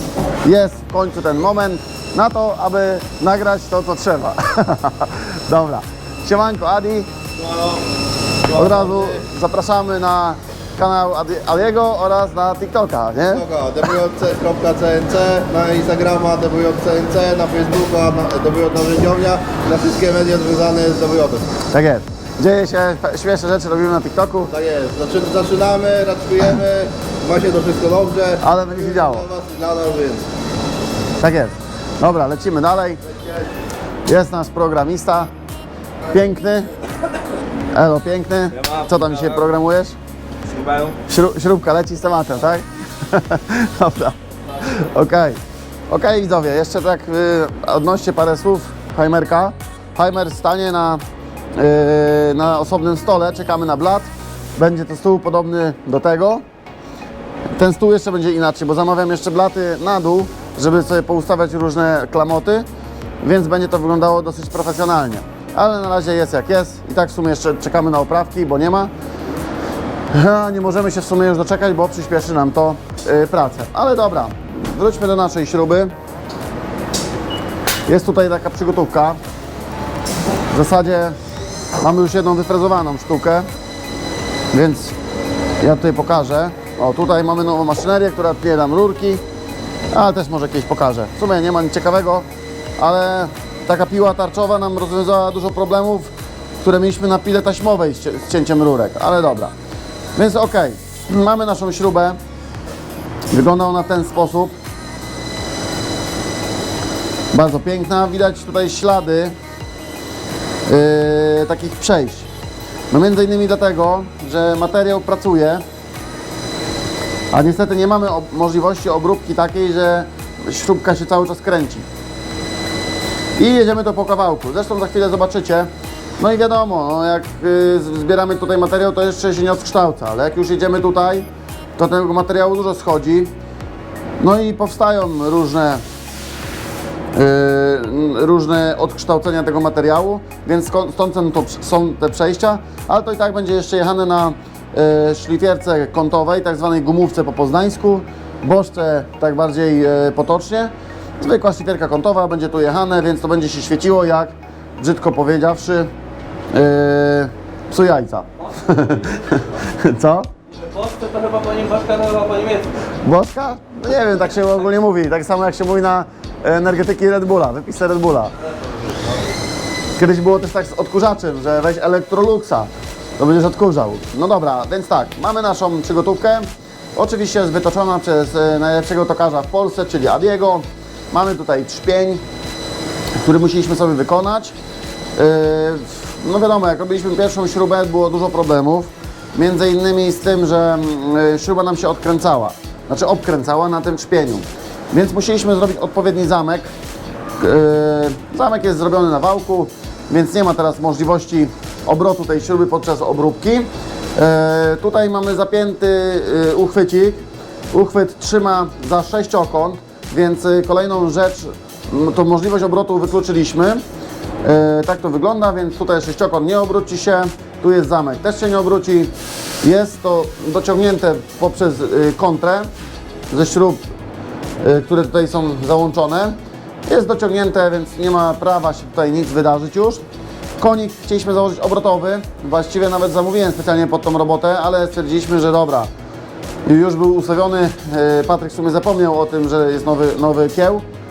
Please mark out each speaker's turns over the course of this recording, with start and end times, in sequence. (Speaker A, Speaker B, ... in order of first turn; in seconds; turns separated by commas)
Speaker A: 0.4-7.1, Speaker B: 7.4-7.8, Speaker B: 8.4-9.2, Speaker A: 8.5-13.4, Speaker B: 13.3-21.6, Speaker A: 21.7-24.5, Speaker B: 24.5-30.3, Speaker A: 28.4-29.2, Speaker A: 31.2-33.0, Speaker A: 34.1-35.3, Speaker A: 36.1-36.7, Speaker A: 37.7-39.9, Speaker C: 38.5-39.5, Speaker C: 40.5-41.0, Speaker A: 41.1-45.4, Speaker A: 45.9-51.0, Speaker A: 51.5-56.4, Speaker A: 57.5-62.6, Speaker A: 63.2-68.9, Speaker A: 70.1-75.9, Speaker A: 77.9-79.2, Speaker A: 80.5-81.2, Speaker A: 81.8-83.5, Speaker A: 84.5-84.9, Speaker A: 85.6-89.2, Speaker A: 89.9-92.2, Speaker A: 92.8-99.5, Speaker A: 100.2-102.2, Speaker A: 103.3-104.5, Speaker A: 107.3-109.3, Speaker A: 110.7-112.3, Speaker A: 112.9-115.6, Speaker A: 117.3-121.9, Speaker A: 123.4-133.3, Speaker A: 134.2-135.8, Speaker A: 137.1-155.9, Speaker A: 156.5-160.3, Speaker C: 158.4-159.5, Speaker C: 160.5-162.7, Speaker A: 163.0-168.3, Speaker C: 168.5-169.1, Speaker A: 170.0-182.2, Speaker A: 183.2-184.6, Speaker A: 185.2-196.7, Speaker A: 197.4-213.8, Speaker A: 214.4-222.7, Speaker A: 223.3-223.8, Speaker A: 224.6-226.3, Speaker A: 226.9-230.0, Speaker A: 230.6-235.9, Speaker A: 236.7-240.8